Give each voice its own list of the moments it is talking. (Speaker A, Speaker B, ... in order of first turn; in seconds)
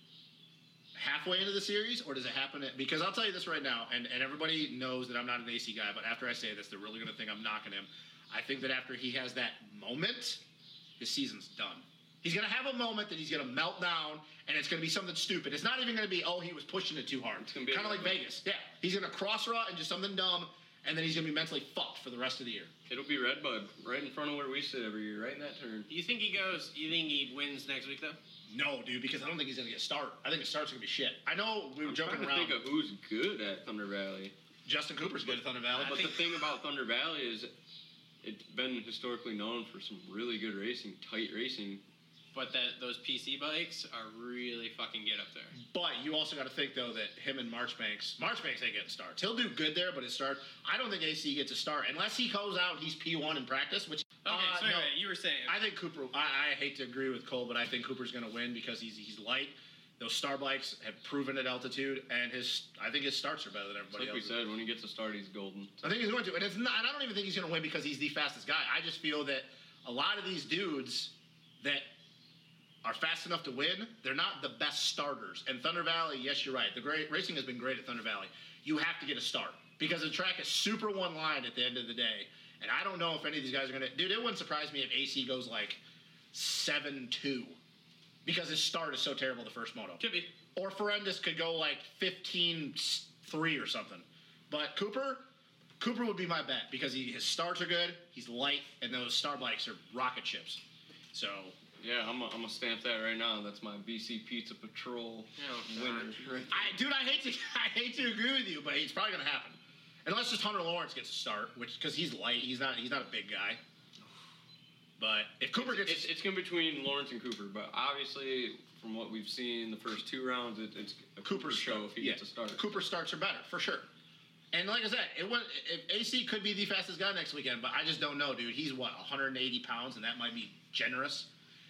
Speaker A: 0.9-10.4, 11.0-22.7, 28.5-32.6, 34.6-36.1, 45.6-54.9, 55.5-64.4, 65.8-71.9, 72.8-85.8, 86.3-87.6, 88.2-90.0, 90.5-95.2, 95.8-100.6, 101.1-101.5, 106.5-113.6, 115.0-116.1, 121.2-123.9, 124.5-131.3
Speaker B: 17.4-18.2, 22.9-25.9, 31.8-34.3, 35.8-37.5, 38.2-41.8, 63.9-66.0, 101.8-106.7, 115.5-122.8
Speaker C: 25.9-28.2, 35.8-36.1, 42.3-45.5, 54.2-55.6, 90.0-90.3, 105.4-106.4